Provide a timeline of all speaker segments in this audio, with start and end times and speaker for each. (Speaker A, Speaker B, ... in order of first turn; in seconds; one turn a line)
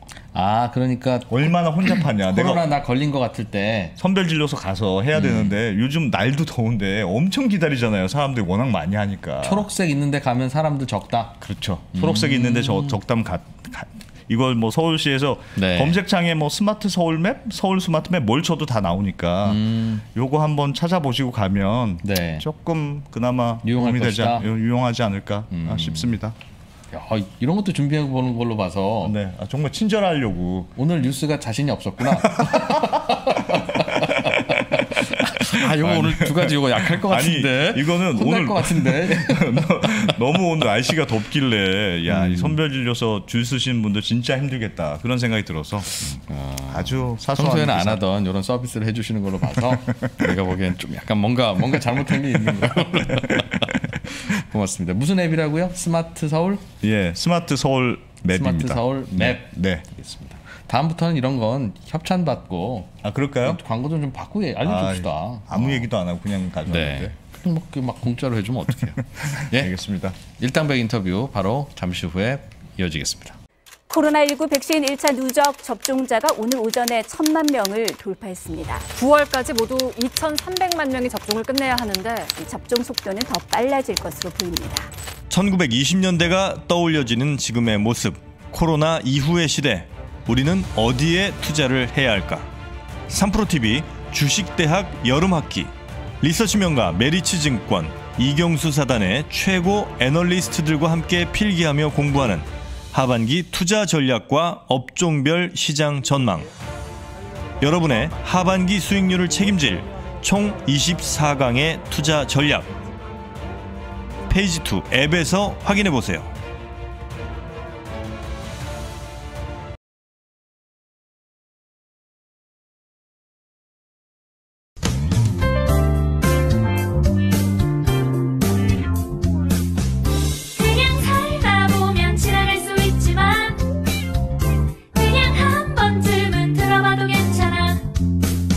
Speaker A: 0.3-4.0
Speaker B: 1.3-2.7
Speaker B: 4.0-9.7
Speaker A: 5.1-5.5
Speaker A: 9.4-11.4
Speaker B: 11.4-26.4
Speaker A: 11.9-13.0
Speaker A: 15.6-15.9
Speaker A: 19.4-20.0
Speaker A: 22.0-22.4
Speaker A: 23.6-24.4
Speaker A: 25.5-26.1
Speaker A: 26.9-29.1
Speaker B: 29.0-30.7
Speaker A: 30.8-40.1
Speaker B: 32.0-48.0
Speaker A: 42.1-42.6
Speaker A: 46.3-56.6
Speaker B: 49.6-50.3
Speaker B: 52.4-53.9
Speaker B: 56.8-60.0
Speaker A: 58.3-65.9
Speaker B: 63.0-63.6
Speaker B: 64.6-67.1
Speaker A: 66.7-69.7
Speaker B: 69.0-70.2
Speaker A: 70.3-73.3
Speaker C: 73.9-78.9
Speaker D: 78.9-82.3
Speaker C: 82.3-84.9
Speaker E: 85.3-92.5
Speaker E: 93.1-106.5
Speaker E: 107.6-112.7
Speaker E: 114.3-116.3
Speaker C: 130.5-133.8
Speaker C: 134.9-137.9